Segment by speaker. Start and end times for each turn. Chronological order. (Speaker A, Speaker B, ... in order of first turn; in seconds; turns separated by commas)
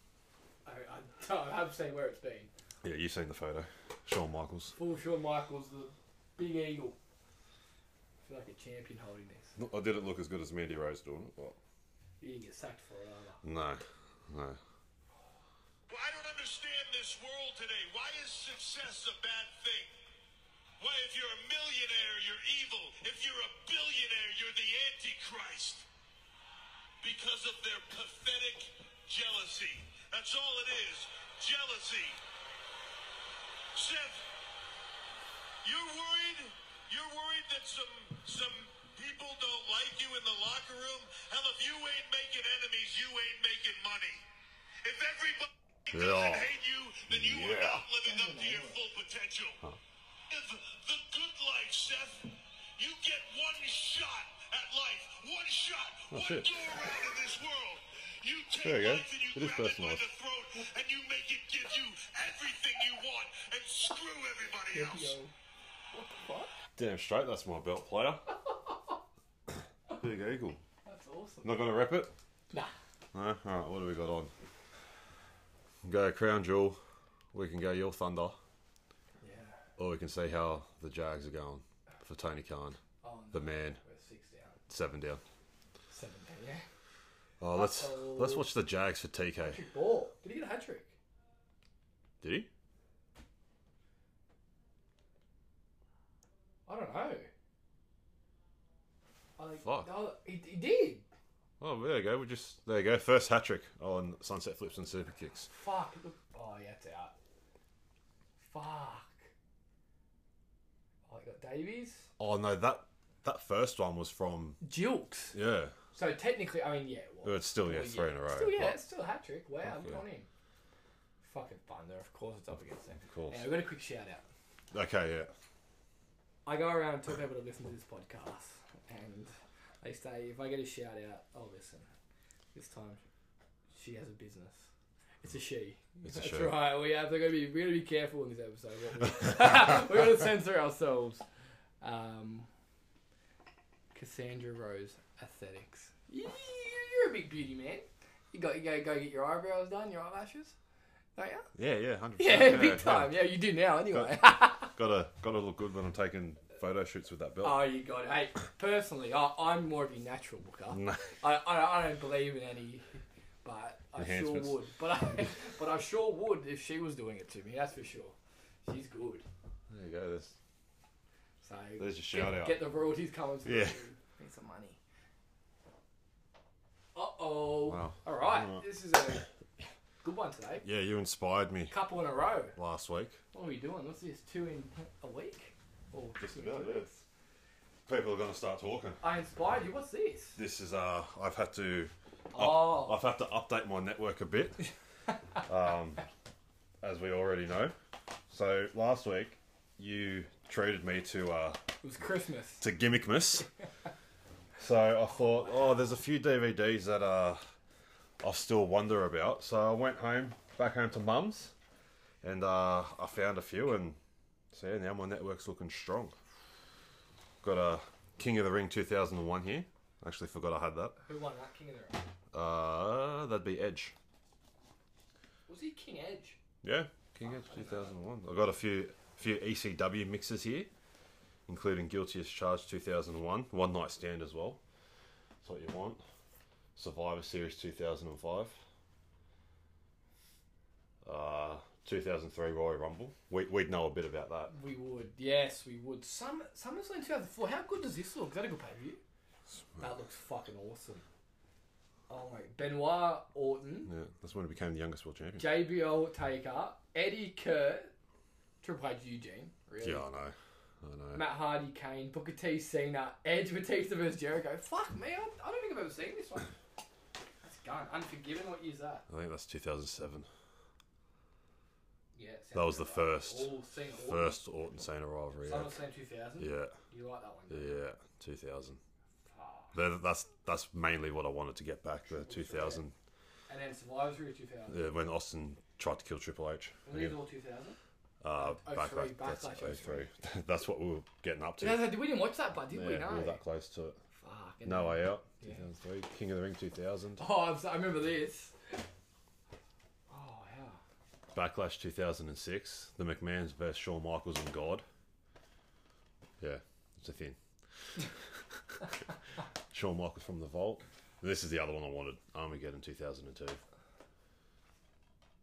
Speaker A: 0.7-2.5, Speaker B: 2.8-4.7, Speaker A: 4.7-7.0, Speaker A: 8.2-9.6, Speaker B: 9.6-11.6, Speaker A: 12.2-13.4, Speaker B: 13.4-14.6, Speaker C: 15.9-19.9, Speaker C: 20.8-25.9, Speaker C: 27.0-32.2, Speaker C: 33.7-34.2, Speaker C: 35.6-44.2, Speaker C: 44.8-49.6, Speaker B: 45.9-46.5, Speaker B: 47.1-47.8, Speaker A: 48.0-48.8, Speaker C: 50.3-65.2, Speaker B: 56.1-56.7, Speaker B: 58.6-60.0, Speaker A: 64.7-65.3, Speaker A: 65.9-66.5, Speaker B: 66.8-68.3, Speaker B: 70.0-70.6, Speaker A: 70.8-71.8, Speaker B: 71.4-72.1, Speaker B: 73.1-74.3, Speaker B: 75.8-76.8, Speaker B: 77.3-78.4, Speaker A: 79.2-79.6, Speaker B: 79.8-82.8, Speaker A: 83.0-84.6, Speaker B: 83.3-83.8, Speaker B: 84.7-85.2, Speaker A: 85.9-86.6, Speaker B: 87.4-89.6, Speaker A: 87.5-88.5, Speaker A: 89.4-91.0, Speaker B: 92.2-92.5, Speaker A: 96.7-97.3, Speaker A: 99.4-101.0, Speaker B: 99.6-99.9, Speaker B: 101.6-105.5, Speaker A: 105.4-107.1, Speaker A: 108.4-109.2, Speaker A: 111.1-112.1, Speaker B: 112.2-114.6, Speaker A: 114.6-115.4, Speaker B: 115.3-115.8, Speaker A: 115.9-120.3, Speaker B: 117.2-118.8, Speaker A: 121.2-124.2, Speaker B: 123.1-123.5, Speaker B: 124.7-125.3, Speaker A: 126.5-131.9, Speaker A: 132.5-133.0, Speaker A: 133.7-134.7, Speaker A: 135.2-141.2, Speaker B: 136.0-136.6, Speaker A: 141.8-142.5, Speaker A: 143.9-150.6, Speaker A: 151.2-151.5, Speaker B: 151.6-153.1, Speaker A: 152.2-154.7, Speaker B: 153.9-157.6, Speaker A: 157.4-169.3, Speaker B: 160.7-161.1, Speaker B: 164.0-164.6, Speaker B: 169.7-170.4, Speaker A: 171.4-174.8, Speaker B: 171.8-172.6, Speaker B: 173.4-173.8, Speaker A: 176.9-179.3, Speaker B: 177.7-178.6, Speaker A: 180.0-180.7, Speaker B: 180.6-181.7, Speaker A: 181.7-182.6, Speaker B: 182.6-183.2, Speaker A: 183.3-187.0, Speaker B: 186.2-186.9, Speaker B: 187.9-189.0, Speaker A: 189.0-190.4, Speaker B: 190.4-194.7, Speaker A: 192.3-193.0, Speaker B: 195.4-196.1, Speaker B: 196.8-197.8, Speaker B: 198.3-201.6, Speaker A: 201.8-202.7, Speaker B: 202.6-203.5, Speaker B: 204.6-207.4, Speaker B: 208.2-211.5, Speaker B: 212.2-214.0, Speaker B: 214.5-216.2, Speaker B: 217.4-221.0, Speaker A: 221.0-222.0, Speaker B: 222.3-223.9, Speaker A: 225.5-226.4, Speaker B: 226.6-230.7, Speaker A: 227.2-227.9, Speaker B: 231.5-234.6, Speaker B: 235.4-236.0, Speaker B: 236.8-238.6, Speaker B: 241.0-244.5, Speaker A: 244.5-249.0, Speaker A: 249.8-251.0, Speaker A: 252.1-253.9, Speaker B: 253.9-255.7, Speaker A: 255.4-257.9, Speaker A: 258.6-260.1, Speaker B: 259.8-261.2, Speaker A: 261.1-266.5, Speaker A: 267.4-269.1, Speaker B: 269.1-270.3, Speaker A: 272.1-274.4, Speaker B: 272.6-275.8, Speaker A: 275.4-277.8, Speaker B: 276.4-276.7, Speaker B: 277.5-278.8, Speaker A: 279.3-279.8, Speaker B: 279.7-282.9, Speaker A: 282.2-282.8, Speaker A: 283.5-284.9, Speaker B: 284.7-287.2, Speaker A: 286.9-287.8, Speaker B: 288.2-292.0, Speaker A: 288.4-290.1, Speaker A: 291.6-293.4, Speaker B: 292.7-294.0, Speaker A: 294.2-295.6, Speaker B: 294.6-297.2, Speaker A: 297.2-298.8, Speaker A: 300.1-300.8, Speaker B: 301.3-304.9, Speaker B: 306.4-307.4, Speaker B: 309.7-313.6